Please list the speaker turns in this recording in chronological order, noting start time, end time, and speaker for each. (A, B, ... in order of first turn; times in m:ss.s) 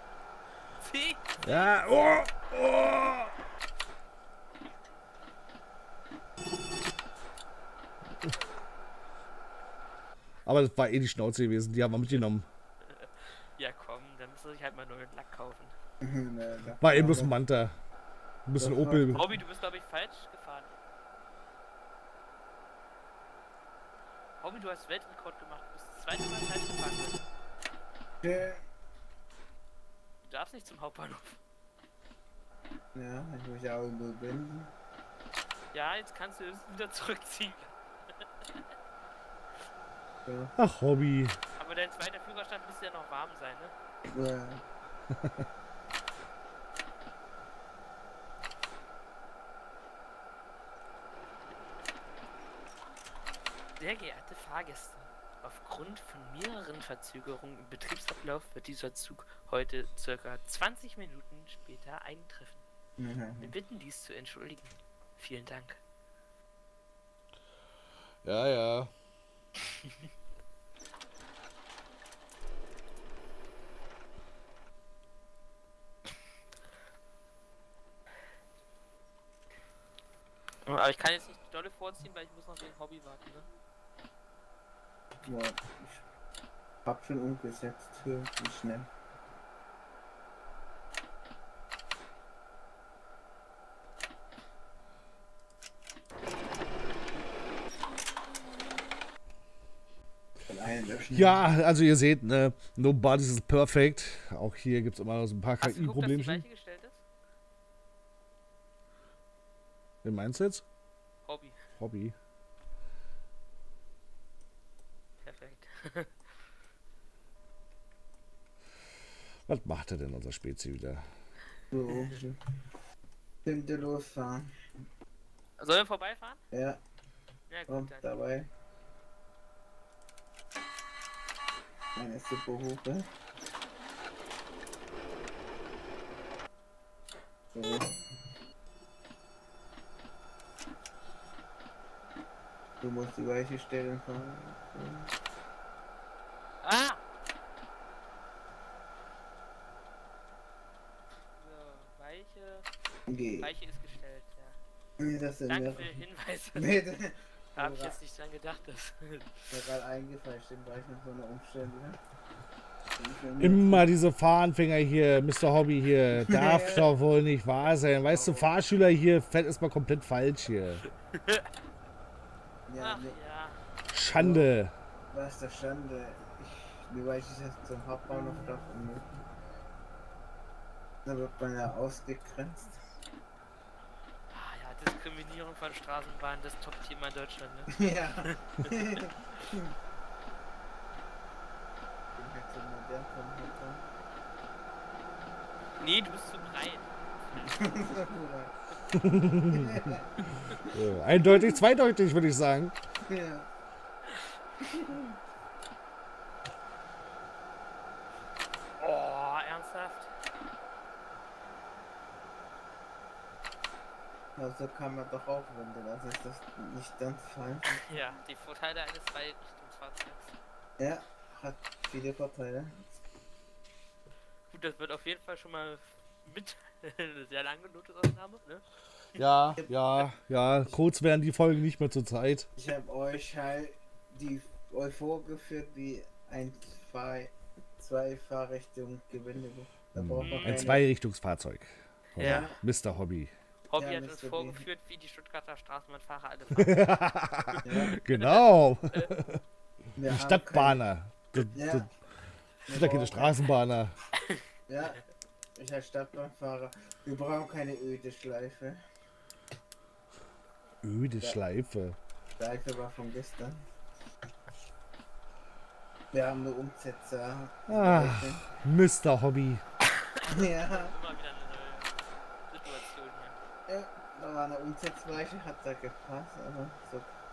0:00.8-0:01.8 A
0:01.4-0:03.3 B
0:10.5-0:12.5 B
0:12.9-0:15.7 A
0:16.0-0:17.3 C
0:16.8-0:17.8 B
0:18.5-0:19.2 B
0:18.6-0:19.4 C
0:19.1-0:20.7 A
0:24.4-0:27.3 A
0:28.2-0:28.6 C
0:30.2-0:31.4 A
0:32.9-0:34.7 C
0:35.7-0:38.2 A
0:40.3-0:40.5 C
0:40.6-0:41.4 B
0:41.6-0:43.7 A
0:44.1-0:44.6 C
0:45.1-0:45.4 B
0:53.8-1:02.6 A
1:03.0-1:03.5 C
1:03.4-1:05.8 A
1:08.2-1:08.9 B
1:20.7-1:23.5 A
1:25.3-1:26.0 C
1:26.8-1:28.9 C
1:40.5-1:41.4 C
1:41.1-1:46.4 B
1:45.6-1:47.0 A
1:50.0-1:50.6 B
1:51.2-1:51.6 A
1:51.8-1:52.2 B
1:55.2-1:56.2 A
1:59.5-2:01.0 B
2:01.7-2:02.4 C
2:03.4-2:04.6 C
2:05.6-2:06.4 A
2:06.5-2:06.8 C
2:07.5-2:08.1 A
2:07.7-2:08.5 C
2:12.0-2:13.0 C
2:17.5-2:17.9 C
2:22.8-2:25.1 C
2:26.6-2:27.0 A
2:31.4-2:32.7 A
2:33.1-2:33.5 C
2:33.4-2:34.6 A
2:35.0-2:36.0 C
2:35.5-2:36.8 A
2:36.6-2:38.0 C
2:37.6-2:39.6 A
2:39.5-2:42.0 C
2:43.0-2:43.9 C
2:43.4-2:50.8 B
2:46.1-2:46.9 C
2:48.1-2:48.5 C
2:51.0-2:51.5 A
2:52.7-2:53.2 C
2:52.8-2:53.6 A
2:53.9-2:54.7 B
2:54.2-2:54.5 C
2:55.1-2:59.2 C
3:01.0-3:02.8 C
3:04.3-3:09.1 A
3:07.7-3:09.7 C
3:12.1-3:13.9 C
3:15.8-3:17.6 A
3:17.4-3:18.5 C
3:18.9-3:20.0 B
3:19.3-3:21.6 C
3:20.7-3:22.8 B
3:23.1-3:23.5 C
3:24.7-3:25.2 C
3:28.8-3:30.1 A
3:34.4-3:37.8 C
3:37.7-3:40.4 A
3:40.8-3:42.8 C
3:44.5-3:48.6 A
3:49.2-3:52.5 B
3:52.6-4:00.8 C
4:00.0-4:03.3 B
4:00.2-4:00.7 A
4:02.2-4:02.6 A
4:02.2-4:02.6 C
4:03.7-4:06.9 A
4:03.8-4:04.6 C
4:06.6-4:09.4 B
4:07.6-4:08.0 C
4:07.9-4:09.1 A
4:10.0-4:10.8 C
4:10.0-4:11.9 B
4:11.5-4:11.9 C
4:12.7-4:13.4 C
4:12.7-4:14.0 B
4:14.7-4:15.0 C
4:15.6-4:18.8 C
4:20.8-4:22.0 B
4:22.4-4:23.6 C
4:26.1-4:28.5 C
4:27.7-4:29.6 B
4:29.9-4:33.4 A
4:30.3-4:31.0 C
4:33.7-4:37.2 C